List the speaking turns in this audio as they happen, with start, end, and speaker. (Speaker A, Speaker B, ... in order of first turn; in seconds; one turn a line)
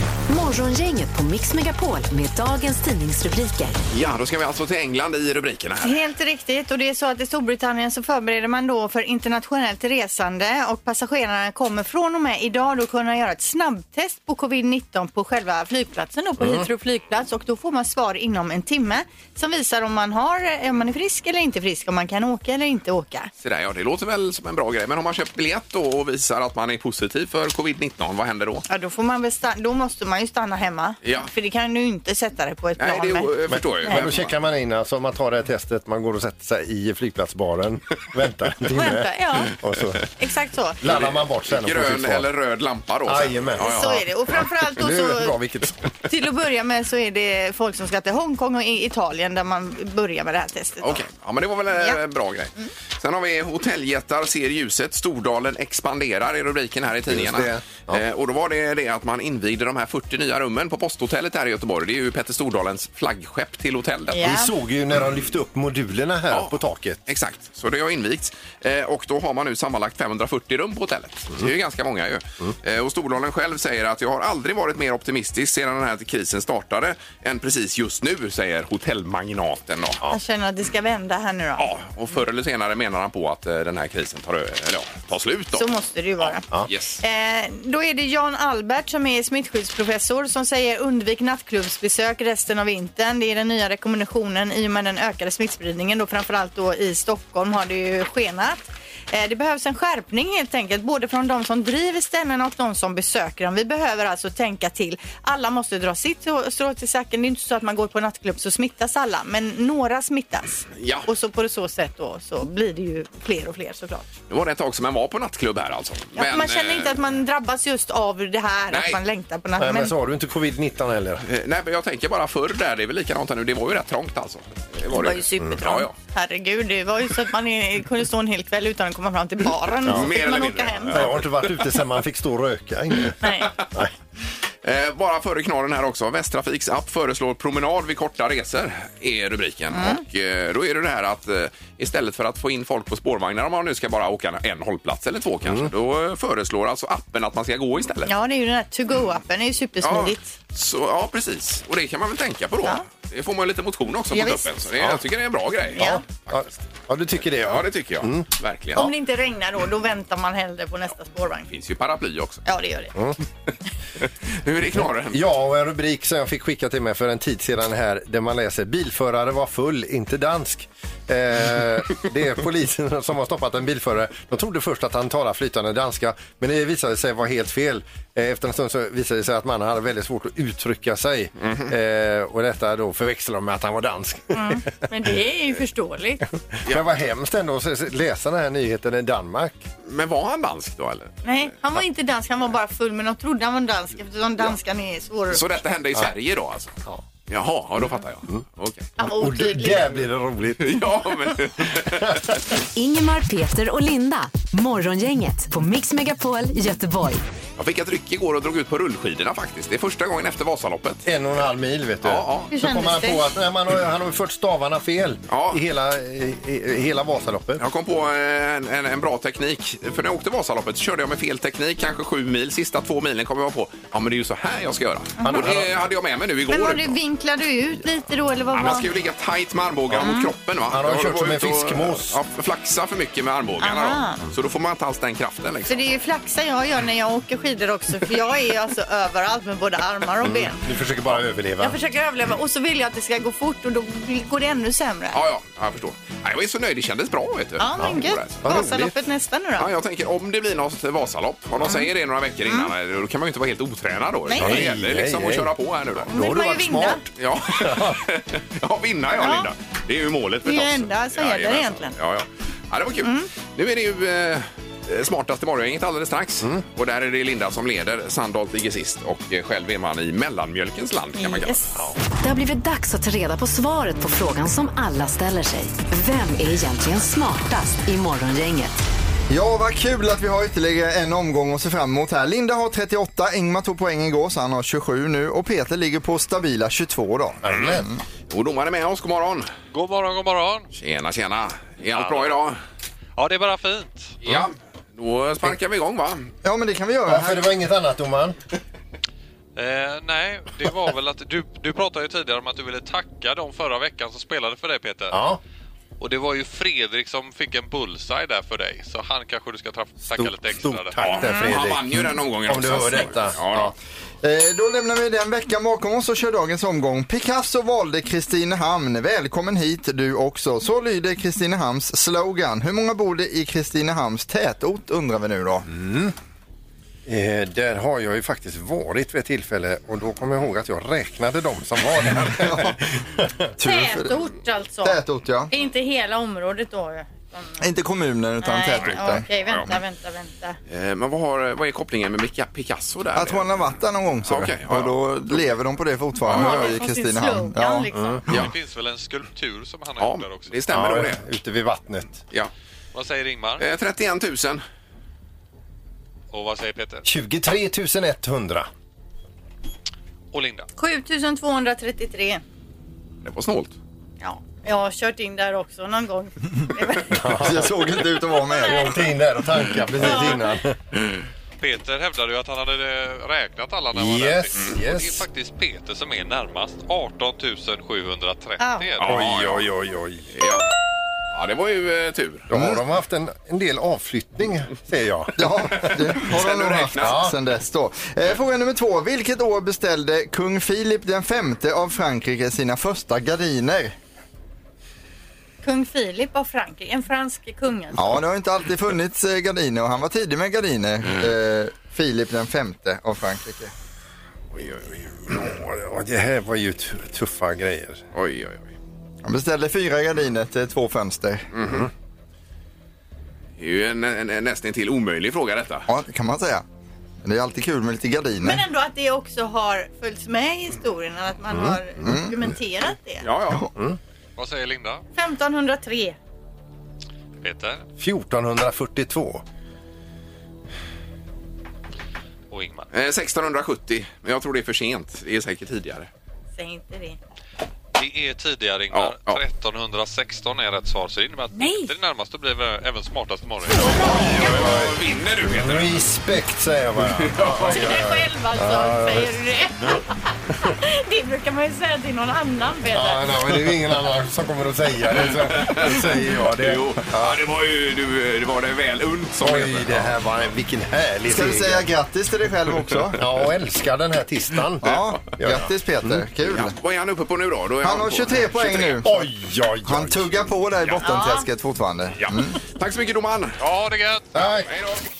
Speaker A: 0.3-3.8
Speaker B: 3.9-5.9
Speaker C: 5.8-23.3
Speaker D: 16.4-16.6
Speaker B: 23.4-28.6
Speaker C: 28.7-33.3
Speaker B: 31.0-31.3
Speaker B: 32.8-34.3
Speaker D: 33.5-40.0
Speaker C: 38.7-39.5
Speaker C: 40.2-40.8
Speaker D: 40.8-42.3
Speaker B: 40.9-44.0
Speaker D: 43.0-45.9
Speaker C: 43.6-45.4
Speaker C: 46.1-51.0
Speaker B: 50.8-64.2
Speaker D: 57.1-58.0
Speaker C: 64.1-64.5
Speaker D: 64.2-67.0
Speaker B: 66.3-80.0
Speaker C: 80.1-81.7
Speaker B: 81.6-85.7
Speaker C: 85.5-86.4
Speaker B: 86.2-87.0
Speaker C: 87.0-114.1
Speaker B: 110.8-111.1
Speaker B: 114.3-117.0
Speaker C: 116.1-119.9
Speaker B: 118.7-119.0
Speaker D: 119.6-121.2
Speaker B: 121.2-125.9
Speaker C: 124.9-131.0
Speaker B: 129.8-131.7
Speaker D: 129.9-130.1
Speaker D: 130.9-133.2
Speaker C: 133.2-133.5
Speaker B: 134.6-148.1
Speaker C: 139.7-140.0
Speaker D: 145.4-145.7
Speaker C: 148.1-150.3
Speaker B: 149.8-156.4
Speaker C: 154.1-154.5
Speaker D: 155.8-158.9
Speaker C: 155.8-156.0
Speaker B: 157.2-158.9
Speaker C: 158.8-161.5
Speaker B: 161.5-162.4
Speaker C: 162.4-162.9
Speaker B: 164.0-165.2
Speaker D: 164.8-184.7
Speaker B: 181.4-181.7
Speaker C: 184.3-186.2
Speaker D: 186.5-189.7
Speaker B: 186.6-186.9
Speaker B: 189.8-191.1
Speaker C: 191.2-195.4
Speaker B: 195.3-196.7
Speaker B: 197.3-198.9
Speaker C: 199.0-200.0
Speaker D: 199.0-200.9
Speaker B: 200.6-202.2
Speaker D: 202.0-202.3
Speaker A: 202.8-207.2
Speaker B: 207.6-211.0
Speaker D: 211.1-217.6
Speaker B: 212.0-212.5
Speaker C: 212.5-213.3
Speaker B: 215.3-215.6
Speaker B: 217.6-227.0
Speaker C: 225.2-225.5
Speaker D: 225.3-225.7
Speaker C: 226.5-228.9
Speaker B: 228.5-235.9
Speaker C: 230.0-230.3
Speaker D: 230.7-232.2
Speaker C: 233.6-234.2
Speaker C: 235.7-240.6
Speaker D: 240.2-241.8
Speaker C: 241.6-245.2
Speaker B: 245.1-248.6
Speaker C: 247.6-249.7
Speaker D: 247.8-248.9
Speaker B: 249.6-256.1
Speaker C: 251.6-251.9
Speaker C: 254.3-254.7
Speaker D: 254.4-255.5
Speaker D: 256.1-258.0
Speaker C: 256.1-257.0
Speaker B: 257.2-271.6
Speaker C: 259.2-259.5
Speaker C: 260.4-261.9
Speaker C: 263.0-263.3
Speaker C: 271.2-271.8
Speaker A: 272.2-278.8
Speaker E: 279.3-288.0
Speaker D: 287.4-287.9
Speaker B: 288.3-289.5
Speaker F: 289.7-290.7
Speaker B: 290.7-292.6
Speaker F: 291.9-292.4
Speaker F: 293.2-294.1
Speaker B: 294.2-296.3
Speaker E: 296.4-297.5
Speaker D: 297.1-298.4
Speaker F: 299.6-305.2
Speaker D: 305.1-305.4
Speaker F: 306.0-311.0
Speaker D: 310.1-313.7
Speaker B: 311.0-313.7
Speaker E: 314.2-325.7
Speaker D: 325.7-326.1
Speaker D: 327.1-333.5
Speaker E: 333.6-334.1
Speaker C: 333.6-335.0
Speaker E: 334.8-335.5
Speaker C: 335.5-337.6
Speaker E: 337.6-339.2
Speaker C: 338.4-340.6
Speaker B: 338.8-339.7
Speaker B: 340.7-345.5
Speaker E: 343.1-347.9
Speaker B: 346.2-346.7
Speaker C: 346.3-348.2
Speaker D: 347.9-348.2
Speaker F: 348.3-350.6
Speaker B: 350.0-351.2
Speaker D: 350.7-352.2
Speaker F: 352.9-353.6
Speaker B: 353.6-354.6
Speaker F: 356.3-357.1
Speaker D: 357.0-358.7
Speaker F: 360.3-360.7
Speaker C: 360.8-362.4
Speaker B: 363.2-363.8
Speaker C: 364.2-367.5
Speaker D: 367.1-367.8
Speaker E: 367.3-369.1
Speaker C: 368.3-368.9
Speaker D: 368.6-370.8
Speaker C: 370.0-370.5
Speaker F: 371.6-379.2
Speaker D: 373.9-375.2
Speaker C: 378.6-379.0
Speaker B: 379.0-379.7
Speaker D: 379.1-380.3
Speaker B: 380.3-380.7
Speaker B: 381.3-382.5
Speaker D: 382.5-385.9
Speaker E: 382.5-382.8
Speaker E: 385.4-393.9
Speaker B: 386.1-387.3
Speaker D: 387.0-387.4
Speaker C: 395.6-398.0
Speaker E: 397.9-403.7
Speaker B: 404.5-405.5
Speaker D: 405.4-408.0
Speaker B: 408.1-408.7
Speaker E: 409.2-411.5
Speaker B: 411.5-411.9
Speaker B: 413.6-415.9
Speaker E: 415.9-416.6
Speaker E: 417.2-418.6
Speaker C: 418.4-423.2
Speaker E: 422.0-422.3
Speaker B: 423.2-423.7
Speaker F: 424.4-425.0
Speaker C: 425.1-426.2
Speaker F: 427.4-427.9
Speaker D: 428.0-429.4
Speaker F: 432.5-432.9
Speaker B: 432.9-436.1
Speaker C: 436.6-437.2
Speaker F: 437.9-443.9
Speaker B: 438.9-439.4
Speaker C: 441.5-441.9
Speaker B: 443.9-446.0
Speaker C: 443.9-444.6
Speaker D: 444.1-444.9
Speaker D: 445.5-449.4
Speaker B: 447.1-447.8
Speaker C: 447.6-453.3
Speaker D: 452.9-457.4
Speaker B: 455.1-460.1
Speaker D: 459.4-461.9
Speaker E: 461.3-463.2
Speaker D: 463.1-466.2
Speaker E: 464.8-466.8
Speaker B: 464.8-465.4
Speaker B: 466.5-469.0
Speaker E: 467.8-469.2
Speaker D: 469.0-470.3
Speaker E: 469.9-472.6
Speaker C: 471.0-471.5
Speaker B: 472.2-473.6
Speaker F: 473.6-474.3
Speaker D: 474.3-474.7
Speaker B: 474.7-475.0